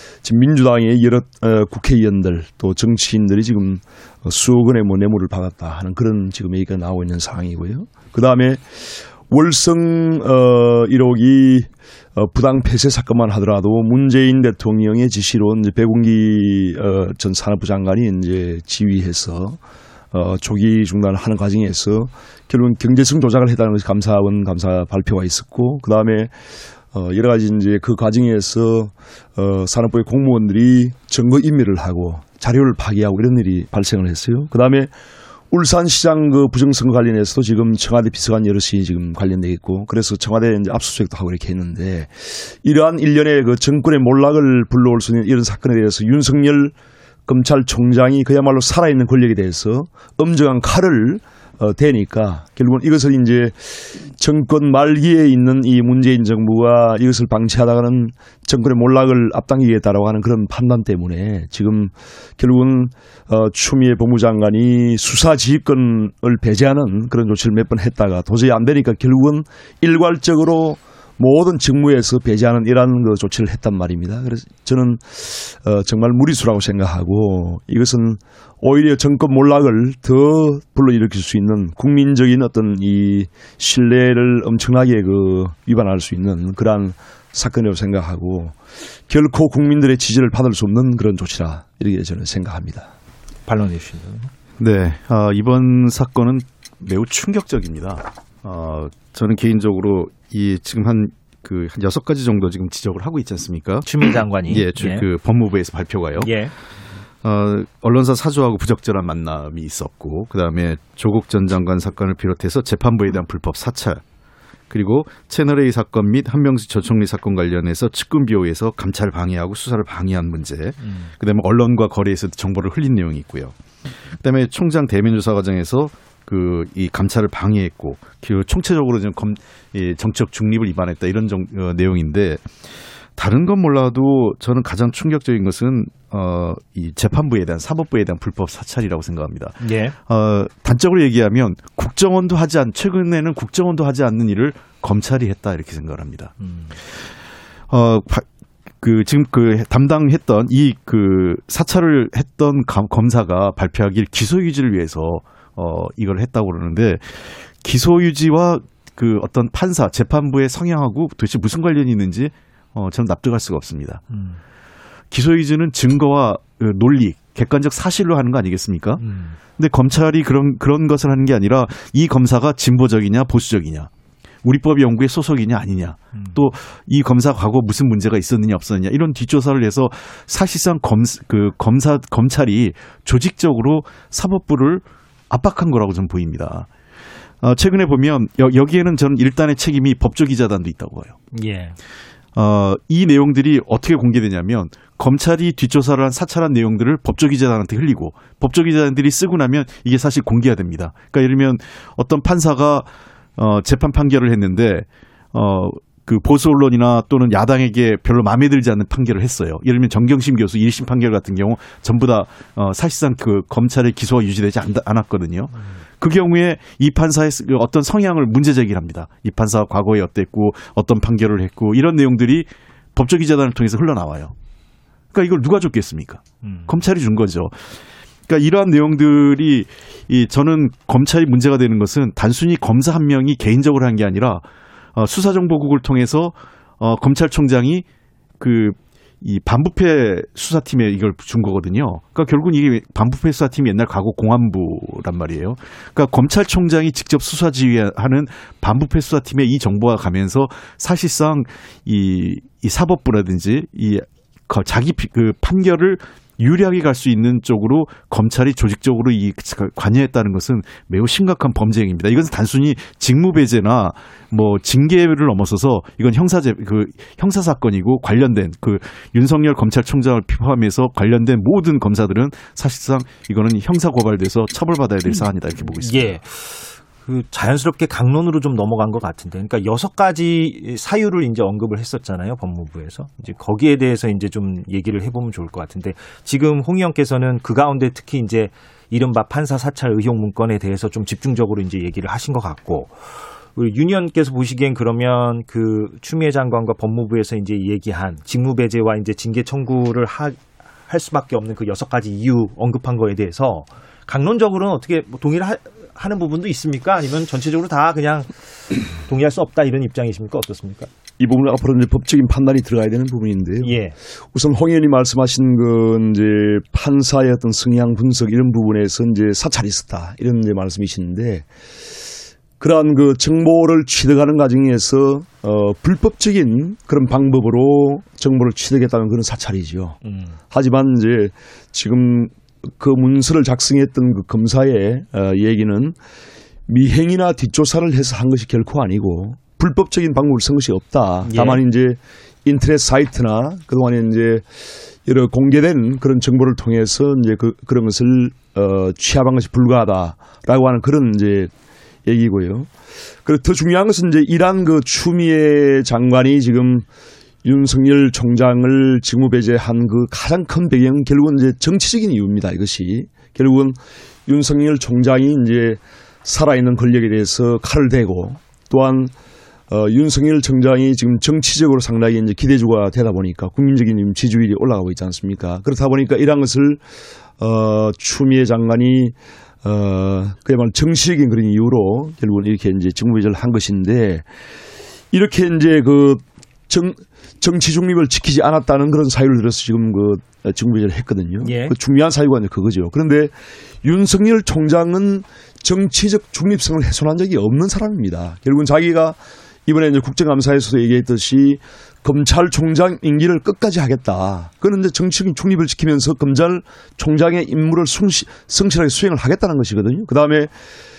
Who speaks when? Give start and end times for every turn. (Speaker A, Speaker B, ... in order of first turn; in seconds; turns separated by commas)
Speaker A: 0.2-19.6, Speaker A: 20.1-26.3, Speaker A: 26.9-34.9, Speaker A: 35.5-46.7, Speaker A: 47.2-92.9, Speaker B: 93.5-94.3, Speaker C: 94.6-106.3, Speaker B: 103.8-105.0, Speaker B: 106.2-106.5, Speaker C: 107.2-114.0, Speaker C: 114.7-123.6, Speaker B: 120.8-121.1, Speaker C: 124.2-132.5, Speaker C: 133.2-146.3, Speaker B: 139.6-139.9, Speaker B: 146.4-146.7, Speaker C: 147.7-148.2, Speaker C: 148.8-164.0, Speaker B: 164.1-164.4, Speaker C: 165.1-169.0, Speaker B: 169.0-169.4, Speaker C: 169.6-173.9, Speaker C: 174.4-186.7, Speaker C: 187.4-191.2, Speaker B: 191.3-191.8, Speaker C: 192.3-224.3, Speaker C: 225.1-227.7, Speaker B: 226.4-226.7, Speaker C: 228.3-237.8, Speaker C: 238.4-276.2, Speaker B: 275.8-310.9, Speaker A: 311.2-313.8, Speaker B: 313.6-313.9, Speaker A: 314.3-321.5, Speaker A: 322.6-330.0, Speaker A: 330.5-335.9, Speaker A: 336.7-344.4, Speaker B: 341.3-341.6, Speaker A: 345.0-351.5, Speaker A: 352.1-352.7, Speaker A: 353.2-356.9, Speaker A: 357.4-369.1, Speaker A: 369.7-376.8, Speaker A: 377.4-384.3, Speaker A: 385.1-410.5, Speaker B: 391.4-391.8